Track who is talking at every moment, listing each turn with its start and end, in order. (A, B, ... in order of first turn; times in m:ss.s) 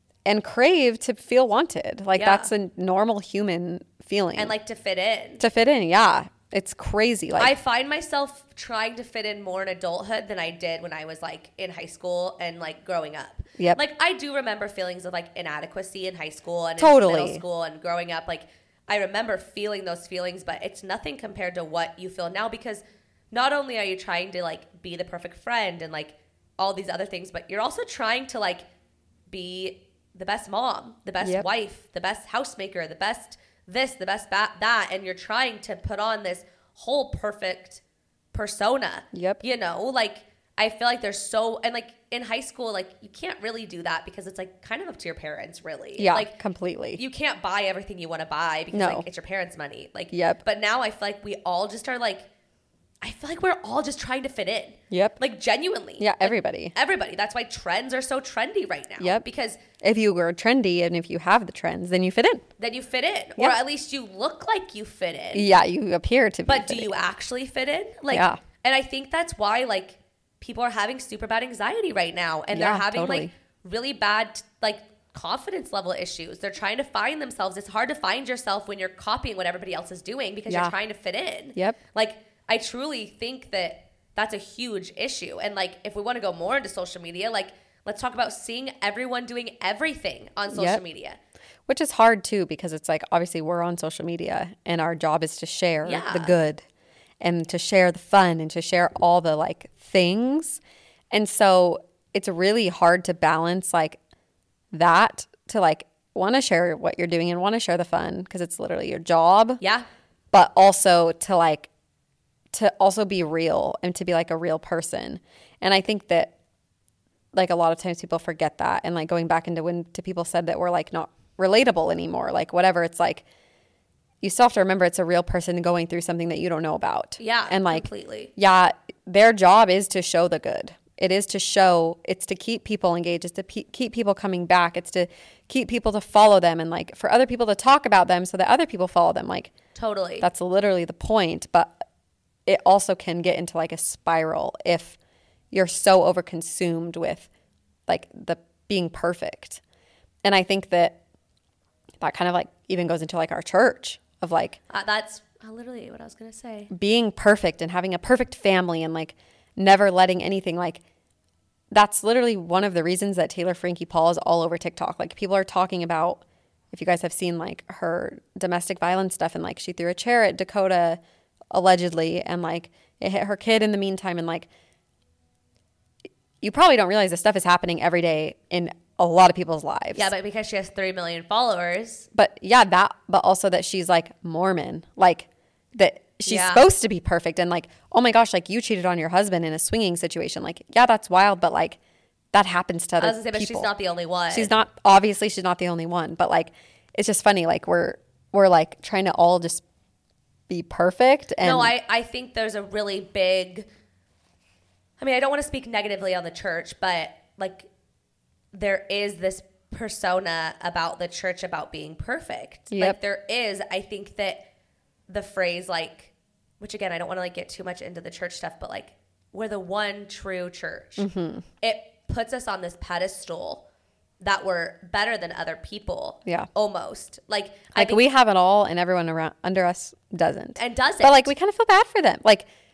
0:00.2-0:04.5 A
0:02.2-0:02.5 B
0:04.4-0:05.4 B
0:05.4-0:07.5 A
0:07.4-0:28.6 B
0:16.8-0:17.4 A
0:29.3-0:37.8 B
0:31.2-0:31.4 A
0:38.3-0:46.3 B
0:39.1-0:39.4 A
0:46.0-0:47.0 A
0:47.0-0:52.3 B
0:48.7-0:49.0 A
0:50.1-0:50.4 A
0:53.0-0:59.6 B
0:54.9-0:55.2 A
0:56.0-0:56.7 A
0:59.0-0:59.2 A
0:59.8-1:02.4 A
1:02.6-1:05.4 B
1:05.3-1:06.9 A
1:06.5-1:31.2 B
1:08.1-1:08.4 A
1:12.5-1:13.3 A
1:20.5-1:20.7 A
1:30.5-1:30.8 A
1:31.7-1:36.6 A
1:35.8-1:36.3 B
1:37.2-1:40.6 A
1:41.1-1:44.0 A
1:44.7-1:49.6 A
1:49.6-1:49.8 B
1:50.3-1:51.7 A
1:52.5-1:56.3 A
1:57.3-2:03.2 A
2:04.2-2:19.5 A
2:07.2-2:08.3 B
2:19.7-2:20.3 B
2:20.2-2:21.8 A
2:22.4-2:25.0 A
2:25.5-2:27.3 A
2:27.9-2:29.6 A
2:30.2-2:31.0 A
2:32.0-2:34.6 A
2:34.7-2:36.7 B
2:36.7-2:40.8 A
2:41.7-2:51.0 A
2:51.5-2:54.5 A
2:56.4-3:00.1 A
2:59.9-3:02.1 B
3:02.1-3:11.8 A
3:06.2-3:06.7 B
3:12.3-3:13.7 A
3:13.0-3:14.5 B
3:14.3-3:19.6 A
3:20.5-3:21.7 A
3:21.4-3:23.7 B
3:25.0-3:27.7 B
3:28.5-3:34.5 B
3:32.7-3:33.0 A
3:35.1-3:41.1 B
3:41.0-3:41.4 A
3:41.6-3:43.6 B
3:44.2-3:48.0 B
3:47.7-3:52.5 A
3:50.6-3:51.3 B